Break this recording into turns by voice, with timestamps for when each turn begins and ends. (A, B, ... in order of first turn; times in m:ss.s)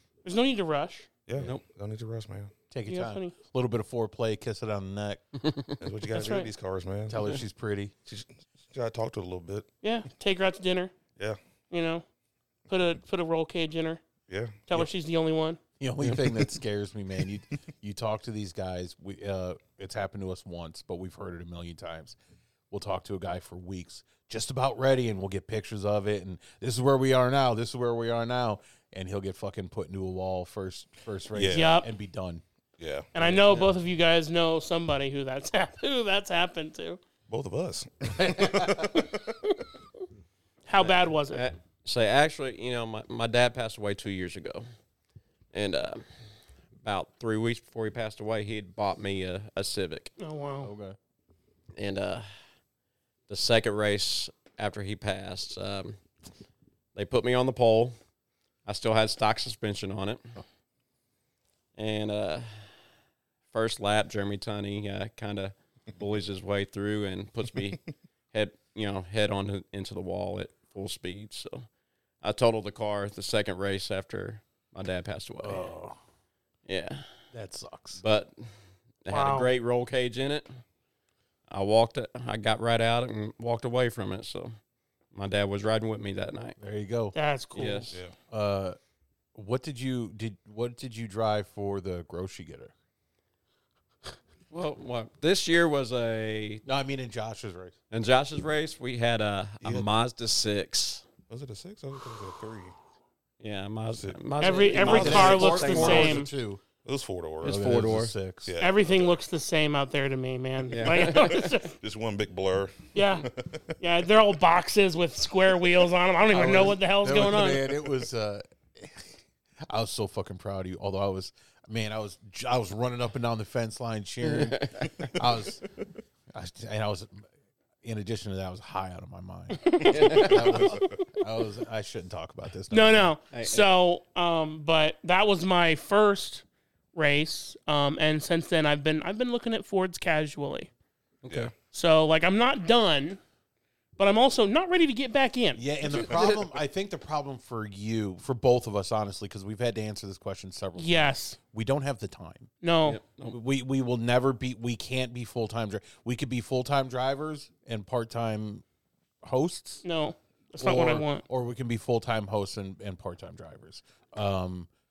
0:00.2-0:01.1 A
0:01.2-0:02.5 B
0:02.7-0:05.2 C
0:02.9-0:03.3 A
0:05.4-0:05.7 D
0:05.8-0:07.4 B
0:06.1-0:06.5 A
0:07.1-0:07.9 C
0:08.0-0:09.7 B
0:09.8-0:10.9 A
0:11.7-0:12.0 A
0:12.7-0:14.0 A
0:14.3-0:14.6 B
0:14.7-0:15.6 A
0:15.8-0:22.2 C
0:16.0-0:16.5 D
0:22.7-0:32.4 C
0:31.3-0:31.7 B
0:31.5-0:31.9 A
0:32.8-0:33.1 B
0:33.1-0:37.0 A
0:33.2-0:33.6 D
0:37.3-0:39.3 B
0:38.2-0:38.9 C
0:40.6-0:41.4 A
0:40.8-0:44.7 D
0:45.5-0:46.0 D
0:46.8-0:50.1 D
0:50.2-0:50.7 A
0:50.6-0:51.0 C
0:51.7-0:52.3 D
0:53.3-0:56.0 D
0:56.9-0:58.0 D
0:58.6-1:00.3 D
1:01.7-1:02.7 D
1:03.5-1:07.8 D
1:08.3-1:11.7 D
1:12.2-1:15.7 D
1:15.4-1:16.0 C
1:16.6-1:17.0 D
1:17.3-1:18.0 C
1:18.0-1:18.5 D
1:19.0-1:20.5 D
1:19.1-1:19.5 A
1:21.5-1:24.6 D
1:25.1-1:26.6 D
1:26.6-1:27.1 C
1:27.1-1:27.9 A
1:27.5-1:27.9 D
1:28.3-1:28.8 C
1:29.3-1:32.7 C
1:34.5-1:36.6 D
1:36.6-1:37.7 C
1:37.9-1:41.1 D
1:39.6-1:39.9 B
1:41.3-1:42.7 B
1:43.4-1:46.2 D
1:43.9-1:45.6 B
1:44.4-1:46.3 A
1:44.8-1:46.6 C
1:46.8-1:47.6 B
1:47.4-1:48.5 C
1:47.4-1:48.1 D
1:48.4-1:49.2 B
1:48.6-1:51.8 A
1:50.7-1:51.5 D
1:51.0-1:53.8 B
1:52.9-1:53.3 A
1:53.8-1:57.7 A
1:56.3-2:05.6 C
2:04.3-2:05.1 D
2:06.3-2:07.2 C
2:07.8-2:13.1 C
2:09.6-2:10.9 A
2:09.8-2:10.8 D
2:12.7-2:20.7 A
2:13.3-2:13.7 D
2:21.2-2:21.5 D
2:21.2-2:21.5 B
2:21.7-2:23.2 A
2:24.0-2:25.6 A
2:25.6-2:32.5 C
2:25.9-2:26.4 D
2:25.9-2:26.3 B
2:30.8-2:31.4 A
2:32.6-2:33.0 A
2:32.8-2:33.4 D
2:33.3-2:38.6 C
2:39.2-2:39.8 C
2:39.8-2:41.2 A
2:40.6-2:44.7 C